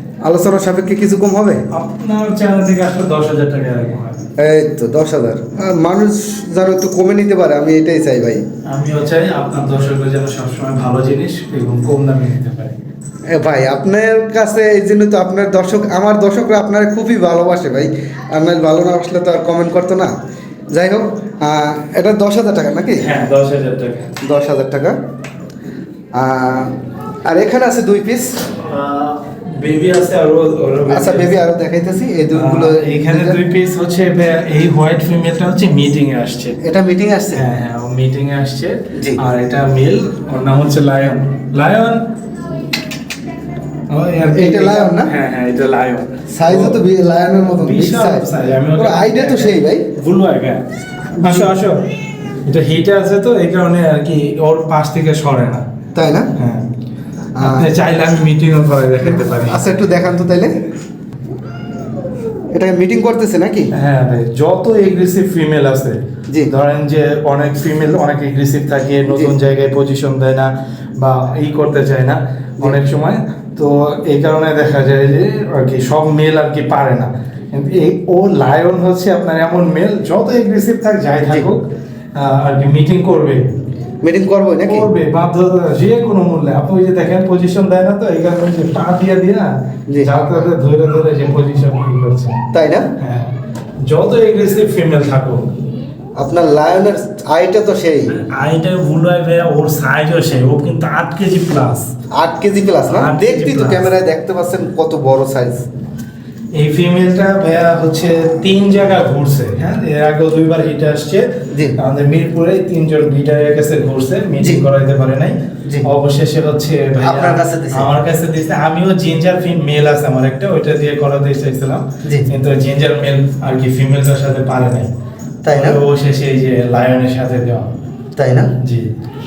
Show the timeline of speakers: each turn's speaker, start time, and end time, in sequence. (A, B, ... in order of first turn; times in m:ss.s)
0:00.2-0:01.6 A
0:01.7-0:04.2 B
0:04.4-0:08.4 A
0:08.7-0:12.8 B
0:13.3-0:20.1 A
0:20.7-0:23.1 A
0:23.0-0:24.1 B
0:24.2-0:25.0 A
0:26.2-0:26.7 A
0:27.2-0:28.4 A
0:28.6-0:31.4 B
0:30.9-0:33.4 A
0:32.3-0:36.6 B
0:36.6-0:37.4 A
0:37.4-0:42.0 B
0:38.9-0:39.2 A
0:43.9-0:46.8 B
0:44.2-0:45.1 A
0:46.3-0:49.9 A
0:47.6-0:50.6 B
0:51.2-0:51.5 A
0:51.2-0:51.9 B
0:52.5-0:55.7 B
0:56.0-0:56.3 A
0:56.4-0:56.7 B
0:57.4-0:57.7 A
0:57.4-0:59.9 B
0:59.1-1:00.6 A
1:02.5-1:03.7 A
1:03.7-1:23.4 B
1:09.1-1:09.4 A
1:24.0-1:24.9 A
1:24.7-1:32.4 B
1:32.5-1:32.9 A
1:33.0-1:35.5 B
1:36.2-1:38.1 A
1:38.1-1:41.9 B
1:42.2-1:45.6 A
1:42.9-1:43.9 B
1:46.5-2:04.9 B
1:51.5-1:51.8 A
1:57.0-1:57.9 A
2:05.4-2:05.8 A
2:05.5-2:07.7 B
2:08.2-2:08.5 A
2:08.6-2:08.9 B